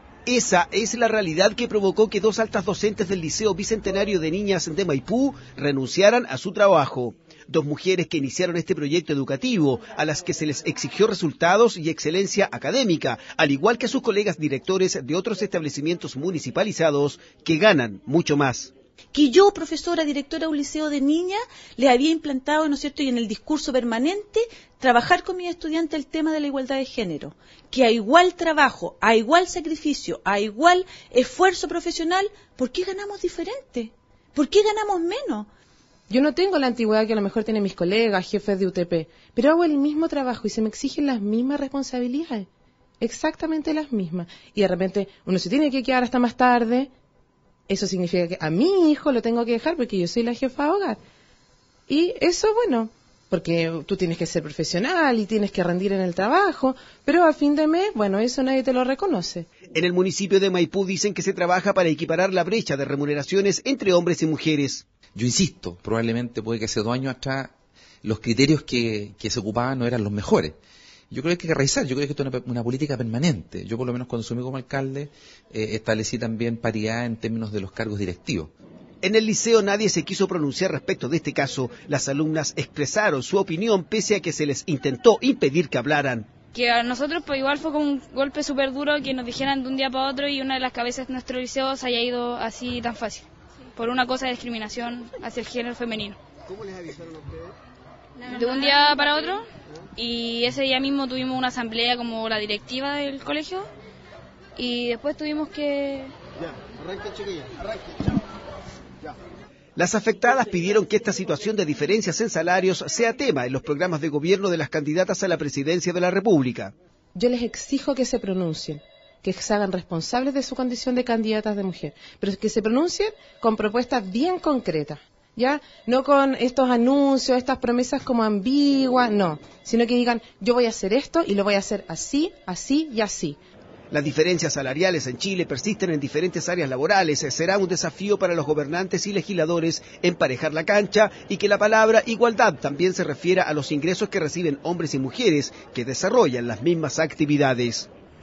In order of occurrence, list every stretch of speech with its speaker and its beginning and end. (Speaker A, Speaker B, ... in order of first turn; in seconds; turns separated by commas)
Speaker A: 0.3-18.7, Speaker B: 19.1-35.5, Speaker C: 36.1-42.5, Speaker C: 43.0-46.9, Speaker C: 47.7-51.0, Speaker C: 51.9-59.5, Speaker A: 59.7-64.8, Speaker D: 65.1-70.6, Speaker D: 71.1-78.5, Speaker A: 79.0-86.3, Speaker E: 86.5-96.2, Speaker E: 98.3-99.5, Speaker E: 100.0-103.7, Speaker E: 104.6-106.1, Speaker A: 109.8-116.7, Speaker C: 117.1-133.4, Speaker A: 133.9-147.9